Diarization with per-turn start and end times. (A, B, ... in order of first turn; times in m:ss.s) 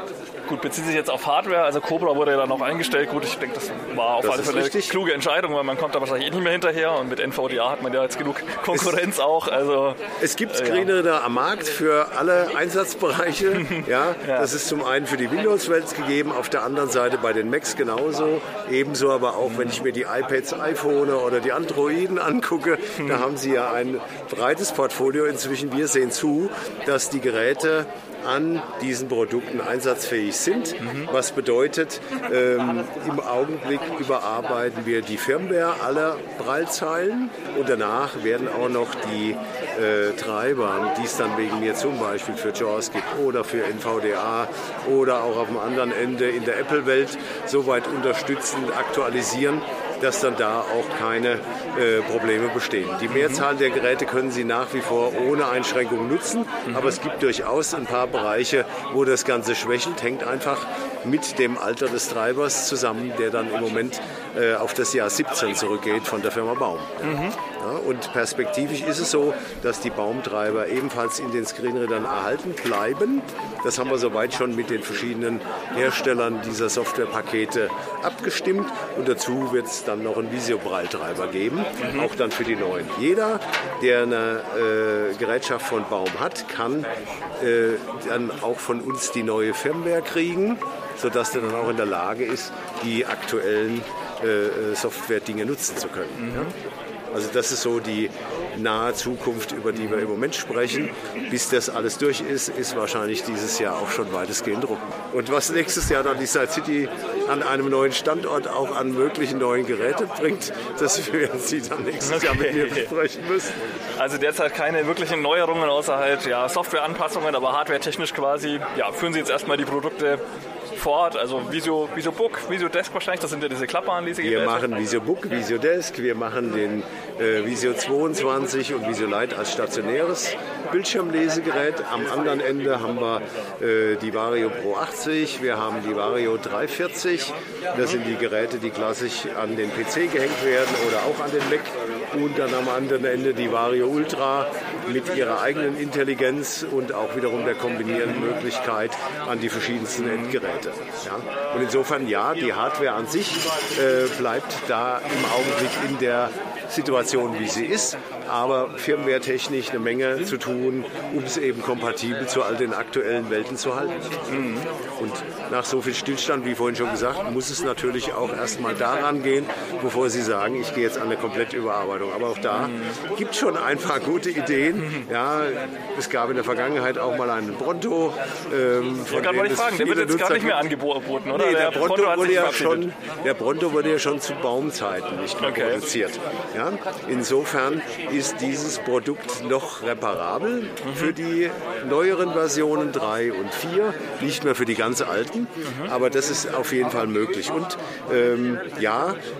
0:00.5-0:10.9 A
0:04.2-0:05.0 B
0:08.7-0:09.0 B
0:10.2-1:26.9 B
0:13.5-0:14.5 A
0:19.4-0:19.8 A
0:23.0-0:23.3 A
0:30.8-0:31.1 A
0:53.1-0:53.4 A
0:56.7-0:57.0 A
1:07.0-1:07.4 A
1:21.8-1:22.1 A
1:27.4-1:36.5 B
1:31.3-1:31.7 A
1:36.2-1:36.5 A
1:37.1-1:53.5 B
1:52.0-1:52.9 A
1:53.9-2:00.2 A
2:00.7-2:04.7 A
2:04.2-2:44.4 B
2:27.9-2:28.3 A
2:30.0-2:30.4 A
2:44.3-2:44.7 A
2:45.0-3:00.7 B
2:52.5-2:52.9 A
2:59.1-3:02.9 A
3:01.3-3:19.2 B
3:05.4-3:05.8 A
3:10.8-3:11.2 A
3:15.6-3:15.9 A